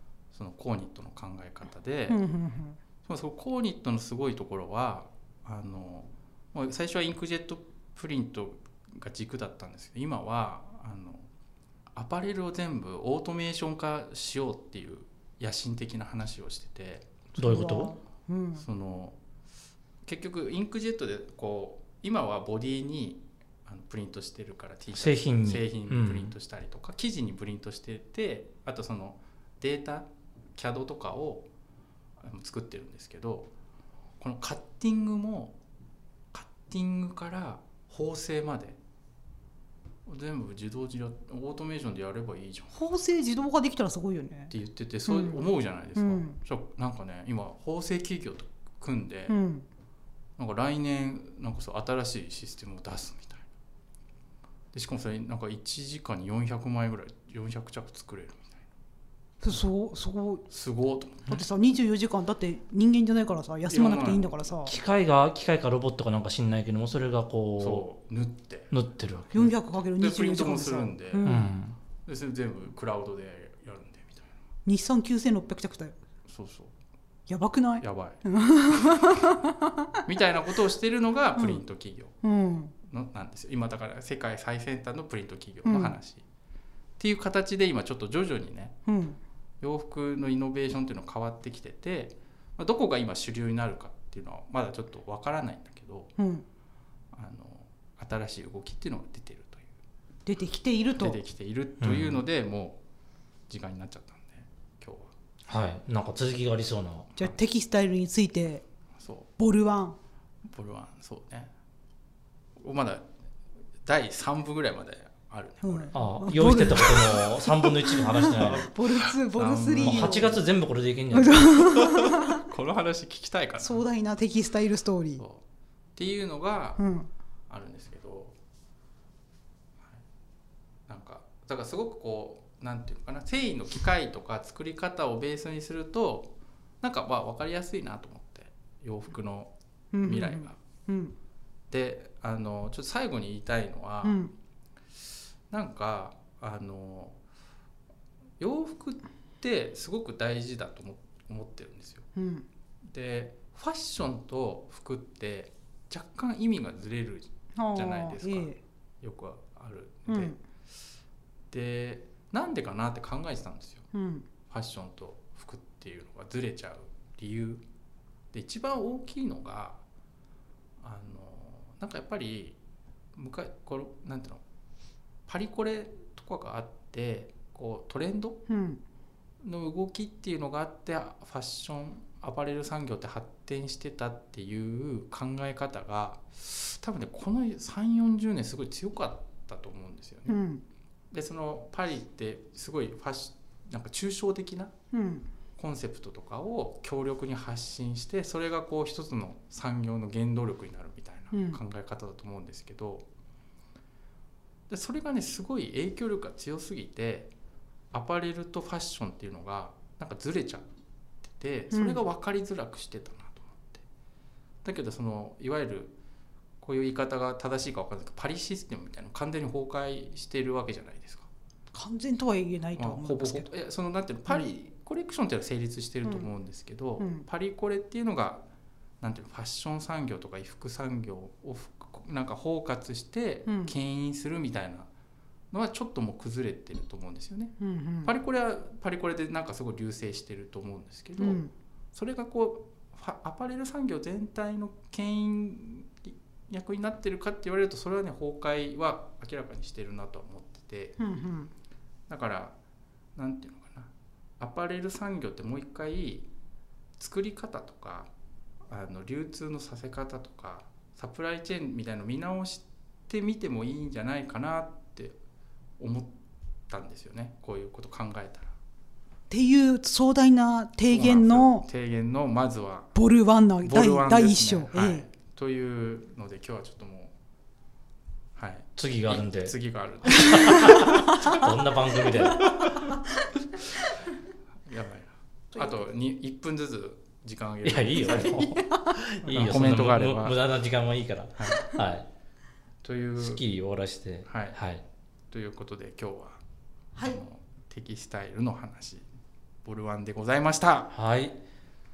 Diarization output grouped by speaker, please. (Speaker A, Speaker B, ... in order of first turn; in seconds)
Speaker A: 0.3-2.2, 3.0-11.3, 11.9-17.4, 18.6-19.2, 20.0-31.5, 32.2-33.5, 34.2-35.5, 36.3-38.8, 40.0-42.7, 44.5-49.4, 50.4-53.4, 54.7-58.6, 60.5-61.4, 63.7-64.3, 67.6-71.4, 72.0-74.4, 76.3-76.7, 77.8-78.2, 80.0-82.1, 82.9-86.2, 87.0-88.8, 89.6-96.1, 97.1-99.7, 101.0-102.8, 103.5-105.1, 109.0-109.3, 110.5-111.5, 112.6-113.1, 113.8-116.0, 118.4-120.4, 122.0-123.8, 126.0-126.8, 127.5-128.3, 130.9-139.5, 140.0-140.6, 141.7-144.2, 145.5-147.2, 148.4-152.1, 152.9-160.4, 161.5-163.8, 164.5-167.6, 168.3-169.8, 170.8-172.6, 173.1-174.4, 175.3-178.4, 179.4-190.4, 191.1-194.7, 195.6-203.1, 204.7-207.3, 207.9-210.7, 211.3-213.8, 214.6-215.9, 216.6-221.3, 222.8-228.4, 229.0-234.9, 235.5-241.4, 241.9-251.0, 252.1-252.5, 253.2-256.3, 257.0-258.1, 258.7-265.2, 265.8-266.1, 266.7-268.5, 270.9-272.9, 273.6-277.1, 278.4-281.4, 284.7-288.4, 289.3-290.5, 291.4-291.8, 292.8-293.4, 294.2-294.6, 295.3-296.4, 297.0-299.0, 299.6-300.9
Speaker B: 2.1-2.8, 17.4-18.6, 42.7-44.5, 45.1-46.4, 49.3-49.6, 59.4-60.4, 61.2-64.7, 69.3-71.5, 74.7-76.0, 77.3-79.8, 81.3-81.6, 82.2-82.7, 85.6-86.0, 88.8-89.2, 96.2-96.4, 100.2-101.2, 107.1-108.6, 109.4-110.0, 115.6-120.4, 121.1-122.4, 123.6-125.2, 126.8-127.1, 139.9-141.1, 144.0-144.3, 152.2-152.4, 157.5-158.6, 160.1-160.4, 163.9-164.2, 178.5-178.8, 190.3-190.6, 194.9-195.3, 201.3-201.6, 211.7-212.0, 221.7-223.5, 227.0-227.2, 233.4-233.7, 237.6-238.1, 241.2-241.5, 251.0-251.5, 269.3-271.6, 272.9-275.0, 280.2-281.4, 282.2-284.1, 285.5-285.8, 287.9-289.3, 296.9-297.2
Speaker C: 17.4-17.9, 24.9-26.3, 64.7-67.8, 68.7-69.3, 71.2-71.8, 101.8-102.2, 105.5-107.1, 115.9-118.7, 119.8-121.5, 278.8-279.5, 280.2-282.9, 287.6-292.1, 293.2-294.8, 300.9-301.4